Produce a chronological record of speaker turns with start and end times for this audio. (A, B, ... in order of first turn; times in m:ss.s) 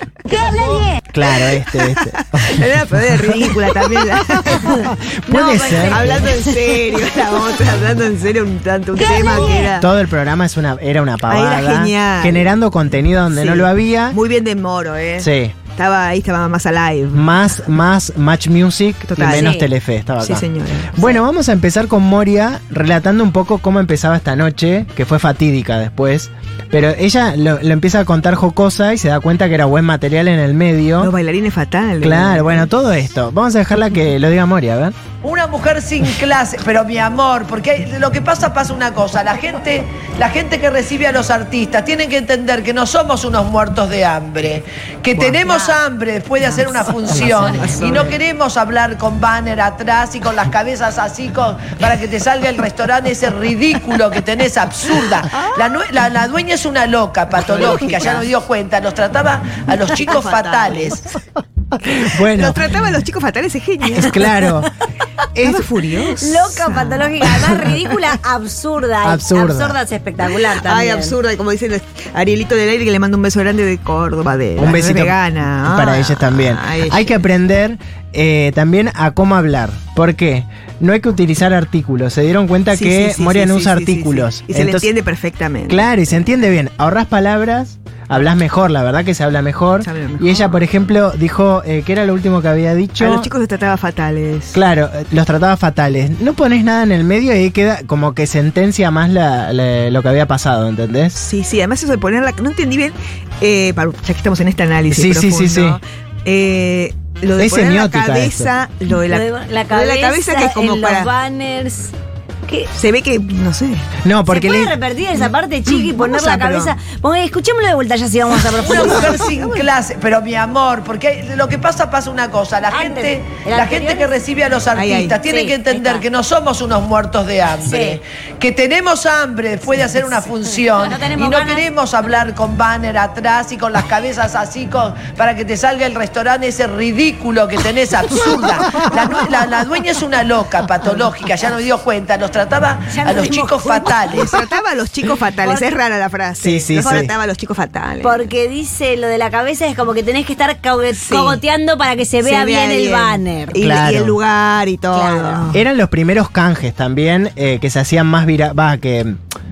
0:00.3-0:01.0 A
0:00.6-0:02.7 B
0:01.4-0:04.8 C
0:04.6-0:06.3 B
0:05.3-0:06.5 A
0:05.8-0:09.9 C
0:09.0-0:09.7 A
0:09.1-0:14.2 B
0:11.3-0:12.5 C
0:13.3-0:17.3 C
0:15.2-0:15.6 B
0:17.1-0:31.1 B
0:19.1-0:19.6 C
0:19.3-0:19.7 A
0:20.2-0:21.2 C
0:31.0-0:32.7 C
0:32.0-0:34.9 B
0:35.2-1:01.0 D
0:45.4-0:45.8 A
0:46.4-0:48.2 C
0:55.4-0:55.8 C
0:57.3-0:58.3 C
0:59.8-1:01.0 C
1:01.8-1:02.7 B
1:01.8-1:04.4 C
1:04.0-1:04.7 B
1:05.4-1:05.6 B
1:05.4-1:08.0 C
1:06.2-1:11.2 A
1:09.0-1:09.8 B
1:10.2-1:17.2 C
1:14.6-1:24.9 B
1:22.7-1:25.9 C
1:25.7-1:33.3 B
1:29.8-1:30.6 C
1:33.0-1:34.6 C
1:34.5-1:41.2 B
1:41.2-1:51.1 C
1:44.9-1:45.8 B
1:47.4-1:48.5 B
1:49.1-1:51.9 A
1:52.7-1:53.8 C
1:54.0-1:54.8 B
1:54.3-1:59.1 A
1:55.2-1:56.7 C
1:58.6-1:59.6 C
1:58.6-2:24.4 D
2:02.7-2:04.1 A
2:04.7-2:05.2 C
2:05.2-2:06.0 A
2:07.6-2:08.0 A
2:10.7-2:11.6 A
2:20.8-2:21.1 C
2:22.9-2:23.9 A
2:24.1-2:28.2 C
2:26.4-2:27.1 B
2:28.0-2:33.6 A
2:30.9-2:31.4 C
2:32.2-2:35.6 C
2:33.6-2:34.2 B
2:34.9-2:35.5 A
2:35.5-2:39.2 B